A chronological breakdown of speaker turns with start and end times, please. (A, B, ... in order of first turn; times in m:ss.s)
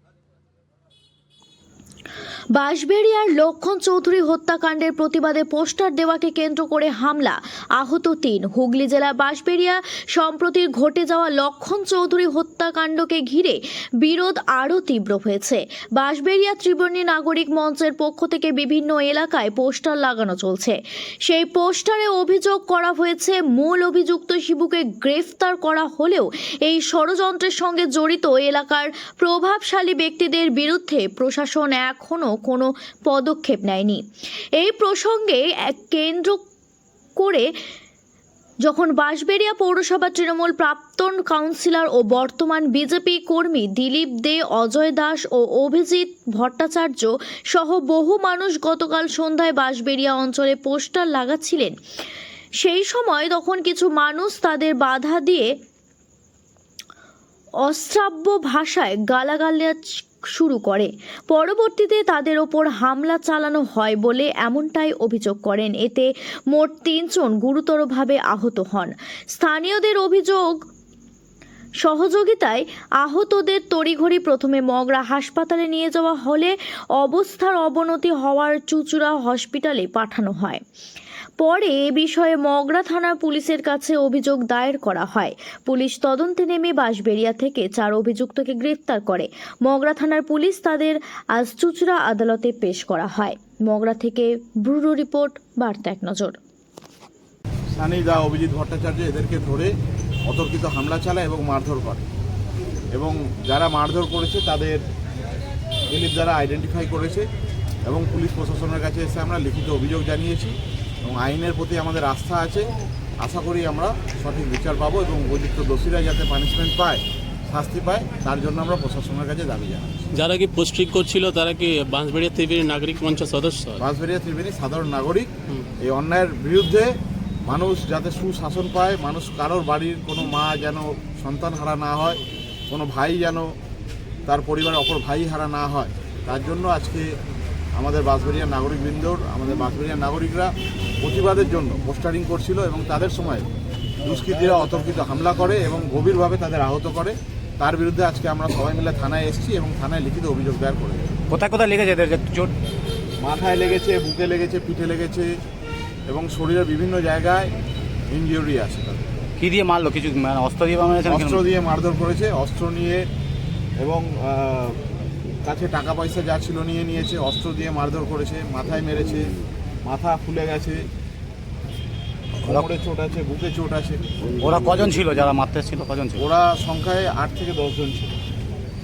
0:02.6-0:34.0 A
0:34.6-0:36.4 A
0:37.2-0:37.5 A
0:38.6-0:51.8 A
0:52.6-0:55.5 A
0:57.6-1:10.6 A
1:11.8-1:20.6 A
1:21.4-1:36.4 A
1:37.8-1:39.7 B
1:40.3-1:42.1 B
1:42.9-1:44.8 B
1:45.9-1:47.3 B
1:47.9-1:52.7 B
1:53.2-2:00.1 B
2:00.2-2:03.8 C
2:03.8-2:05.3 B
2:05.8-2:12.2 B
2:12.7-2:13.5 B
2:14.3-2:17.2 B
2:17.8-2:23.5 B
2:24.0-2:31.1 B
2:31.3-2:32.5 D
2:33.2-2:35.4 B
2:36.1-2:37.5 B
2:38.1-2:39.0 B
2:39.4-2:41.4 D
2:41.0-2:43.1 B
2:43.8-2:44.8 B
2:45.4-2:49.3 B
2:49.8-2:50.9 B
2:52.4-2:54.0 B
2:54.4-2:56.2 D
2:56.2-2:58.2 B